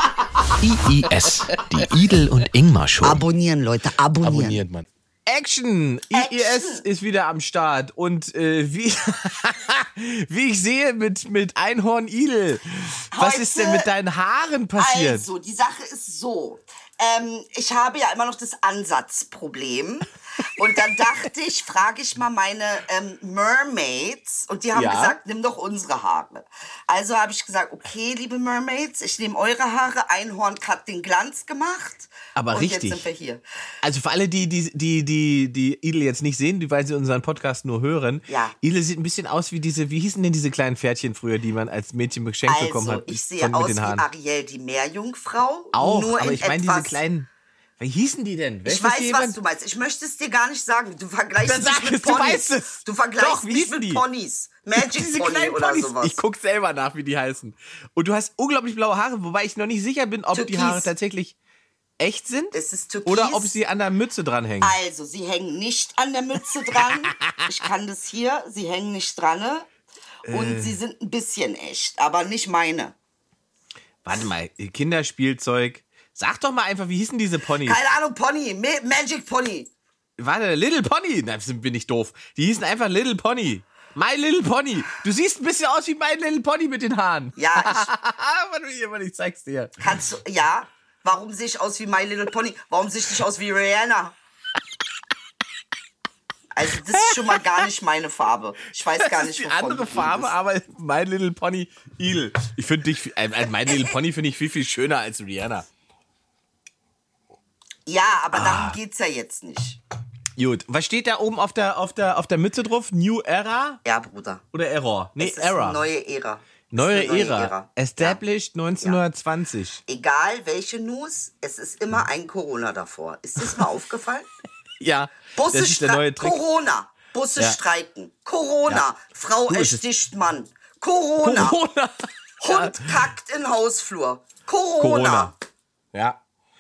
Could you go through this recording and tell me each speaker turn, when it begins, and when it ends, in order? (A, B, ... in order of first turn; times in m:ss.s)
0:00.6-0:03.3 A
0:03.0-0:04.6 B
0:03.9-0:04.9 A
0:05.3-0:15.3 C
0:06.1-0:06.8 B
0:13.1-0:13.9 B
0:14.8-0:33.4 B
0:24.7-0:25.2 C
0:32.4-0:33.1 C
0:33.8-0:44.0 C
0:38.3-0:38.6 B
0:42.5-0:47.0 B
0:45.7-0:47.3 C
0:47.8-0:49.4 C
0:48.6-0:56.2 B
0:51.4-0:54.0 C
0:54.8-1:01.4 C
1:00.3-1:00.9 B
1:02.0-1:02.6 C
1:02.5-1:03.5 B
1:03.1-1:04.8 C
1:04.6-1:09.7 B
1:06.8-1:07.5 C
1:10.3-1:10.8 C
1:10.3-1:13.0 B
1:14.0-1:17.8 C
1:17.6-1:19.7 B
1:20.2-1:29.8 C
1:27.4-1:27.9 B
1:29.8-1:34.2 B
1:36.5-1:40.3 B
1:37.0-1:37.4 C
1:39.0-1:45.7 C
1:47.9-1:49.8 B
1:48.3-1:48.8 C
1:50.4-1:53.8 C
1:53.8-1:54.4 B
1:54.5-1:55.8 C
1:55.2-1:58.2 B
1:56.7-1:59.8 C
1:59.9-2:04.3 B
2:04.8-2:06.4 C
2:05.4-2:11.6 B
2:09.5-2:09.8 C
2:11.2-2:13.0 C
2:12.4-2:15.3 B
2:14.8-2:15.3 C
2:15.9-2:16.2 C